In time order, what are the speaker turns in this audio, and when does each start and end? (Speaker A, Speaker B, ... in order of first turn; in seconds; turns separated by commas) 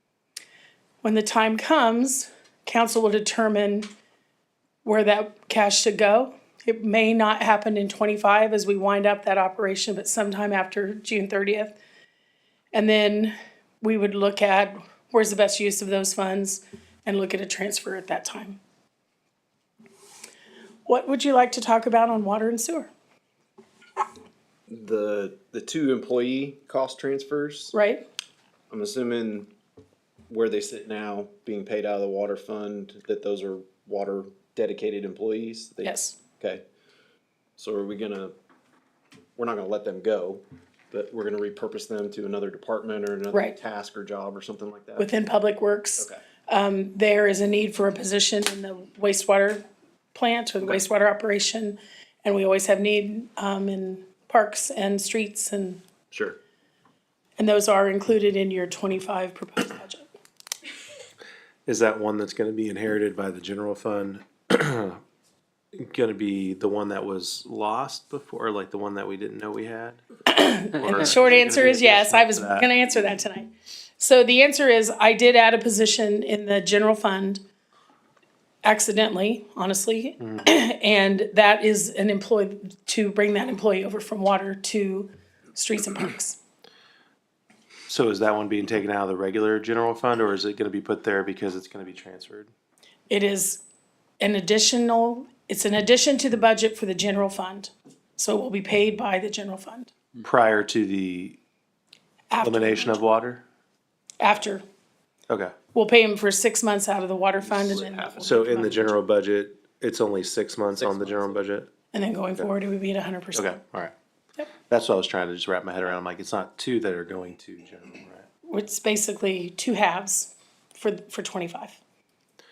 Speaker A: 1.0-3.9, Speaker A: 4.8-11.8, Speaker A: 12.7-18.6, Speaker A: 20.9-22.9, Speaker B: 24.7-27.7, Speaker A: 27.7-28.0, Speaker B: 28.7-29.5, Speaker B: 30.3-36.6, Speaker A: 35.8-36.1, Speaker B: 37.6-38.3, Speaker B: 39.4-45.1, Speaker A: 43.3-43.6, Speaker A: 45.0-55.8, Speaker B: 56.1-56.4, Speaker A: 57.4-60.1, Speaker C: 61.6-65.0, Speaker C: 65.7-70.0, Speaker A: 70.3-77.4, Speaker C: 70.6-72.7, Speaker A: 78.6-86.4, Speaker C: 80.2-80.5, Speaker C: 87.9-92.5, Speaker A: 93.1-93.6, Speaker A: 94.2-99.9, Speaker C: 100.2-101.4, Speaker A: 102.3-103.0, Speaker C: 102.4-103.4, Speaker A: 104.2-104.6, Speaker C: 105.3-105.5, Speaker A: 105.7-108.9, Speaker B: 107.4-108.8, Speaker C: 108.2-111.7, Speaker B: 110.7-111.3, Speaker A: 111.9-113.6, Speaker C: 113.3-113.9, Speaker C: 114.7-118.3, Speaker A: 118.5-121.8